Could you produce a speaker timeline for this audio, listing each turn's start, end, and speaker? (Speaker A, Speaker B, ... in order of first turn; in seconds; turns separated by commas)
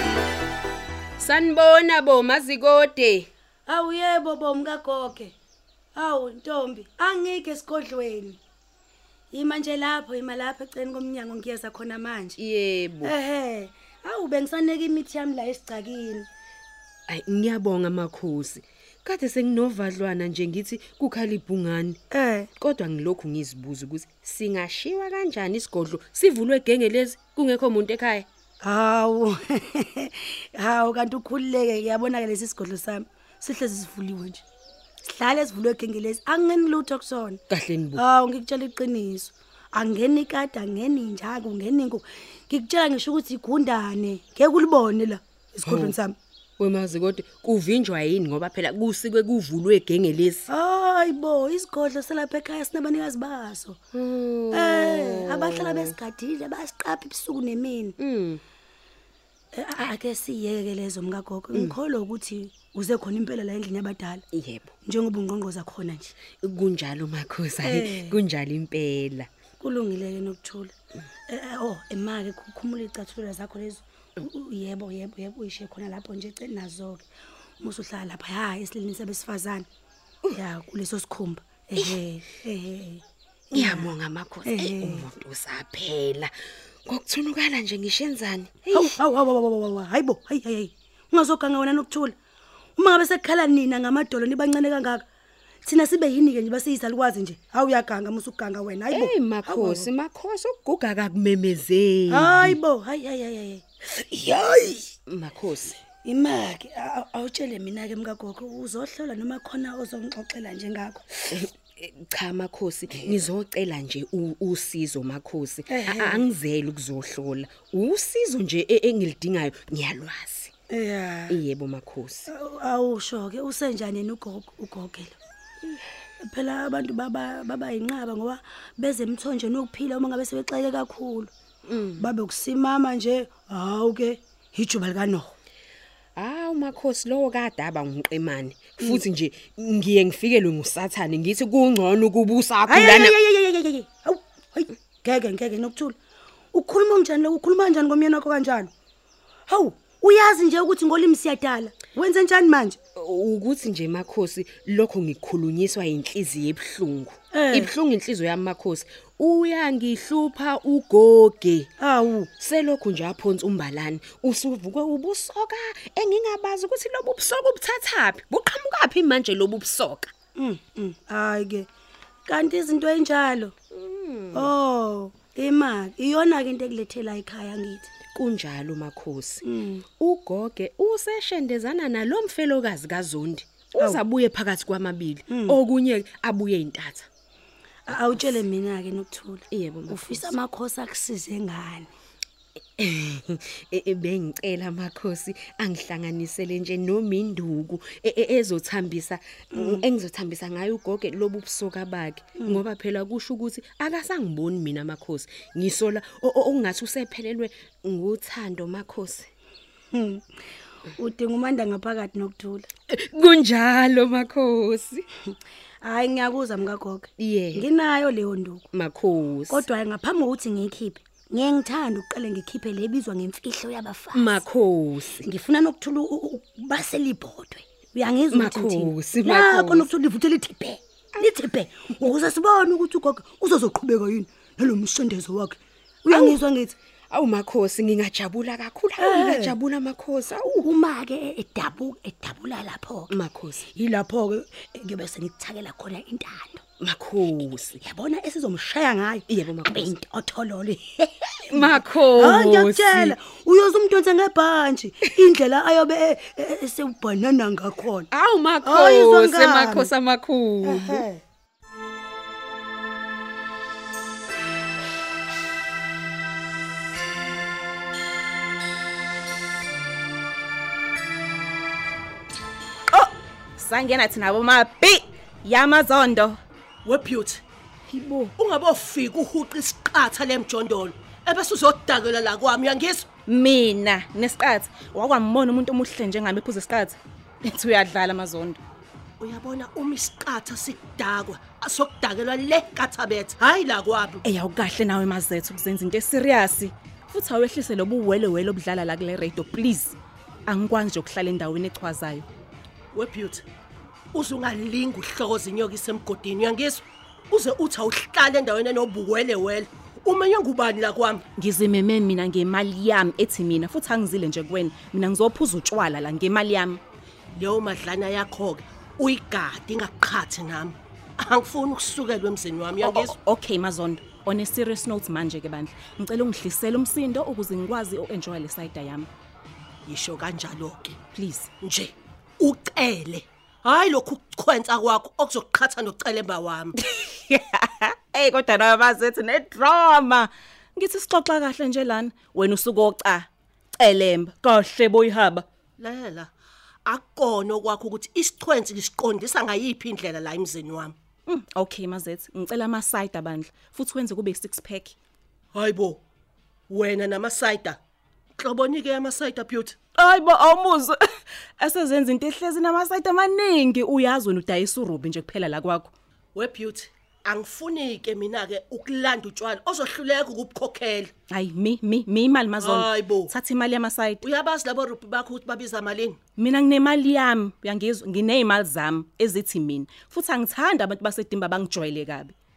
Speaker A: 1.2-3.3, Speaker B: 3.7-5.3, Speaker B: 6.0-8.4, Speaker B: 9.3-12.4, Speaker A: 12.4-13.1, Speaker B: 13.0-16.3, Speaker A: 17.1-22.0, Speaker B: 22.1-22.5, Speaker A: 22.6-28.3, Speaker B: 28.6-34.4, Speaker B: 35.1-37.4, Speaker A: 37.5-38.0, Speaker B: 38.0-46.2, Speaker A: 45.6-46.0, Speaker A: 46.6-50.5, Speaker B: 50.5-53.8, Speaker A: 53.9-56.0, Speaker B: 54.5-57.9, Speaker A: 58.0-58.4, Speaker B: 59.5-64.2, Speaker A: 64.3-64.7, Speaker B: 64.8-66.1, Speaker A: 66.4-69.3, Speaker B: 67.6-68.1, Speaker B: 69.6-70.7, Speaker B: 71.3-77.1, Speaker B: 77.6-79.7, Speaker B: 80.3-83.0, Speaker A: 83.5-86.3, Speaker B: 83.5-83.9, Speaker B: 84.5-85.0, Speaker A: 86.8-88.9, Speaker B: 88.7-92.2, Speaker B: 92.8-95.0, Speaker B: 95.6-99.9, Speaker A: 98.9-102.6, Speaker B: 102.1-103.6, Speaker A: 104.1-105.8, Speaker B: 106.0-111.1, Speaker A: 111.3-120.5, Speaker B: 115.7-116.2, Speaker B: 120.7-121.4, Speaker A: 121.3-122.3, Speaker B: 122.3-125.2, Speaker B: 126.2-131.3, Speaker A: 131.7-132.1, Speaker B: 132.0-135.3, Speaker A: 136.2-143.2, Speaker B: 142.7-146.0, Speaker B: 146.5-148.7, Speaker B: 149.5-152.8, Speaker A: 153.0-161.7, Speaker B: 157.3-157.7, Speaker B: 161.8-162.3, Speaker A: 162.4-170.1, Speaker B: 170.4-171.7, Speaker B: 172.3-173.6, Speaker A: 173.7-174.5, Speaker B: 174.3-177.9, Speaker A: 178.1-187.1, Speaker B: 179.4-179.8, Speaker B: 185.3-185.5, Speaker B: 187.9-191.9, Speaker A: 189.5-190.4, Speaker A: 192.8-209.3, Speaker B: 209.9-210.2, Speaker B: 211.0-212.7, Speaker A: 212.9-215.1, Speaker B: 215.8-218.7, Speaker A: 217.2-217.7, Speaker A: 218.7-219.6, Speaker B: 219.5-224.4, Speaker A: 224.1-225.3, Speaker B: 225.2-236.8, Speaker A: 228.3-229.9, Speaker A: 236.1-236.4, Speaker A: 237.1-240.7, Speaker B: 239.0-239.5, Speaker B: 240.6-246.6, Speaker A: 243.1-243.6, Speaker A: 246.8-247.8, Speaker B: 247.8-258.1, Speaker A: 249.3-249.9, Speaker A: 251.5-253.2, Speaker A: 258.1-261.0, Speaker B: 258.6-259.9, Speaker B: 260.6-261.2, Speaker C: 272.9-276.4, Speaker D: 276.9-277.4, Speaker A: 277.9-278.3, Speaker D: 278.4-283.1, Speaker C: 283.3-288.6, Speaker D: 289.2-294.2, Speaker C: 294.2-300.0, Speaker C: 300.5-302.3, Speaker D: 302.9-303.4, Speaker D: 304.1-311.2, Speaker C: 311.4-316.8, Speaker D: 317.3-323.1, Speaker C: 322.8-329.1, Speaker D: 329.9-331.0, Speaker C: 331.1-331.5, Speaker D: 331.6-336.8, Speaker C: 336.8-343.3, Speaker C: 343.8-345.4, Speaker D: 345.8-346.3, Speaker D: 346.9-351.0, Speaker C: 351.3-355.0, Speaker D: 355.5-356.0, Speaker D: 356.7-357.8, Speaker D: 358.4-359.8, Speaker C: 360.0-361.0, Speaker C: 361.6-365.9, Speaker D: 366.4-371.1, Speaker C: 371.3-374.2, Speaker D: 372.6-373.3, Speaker D: 374.2-376.2, Speaker C: 376.4-382.4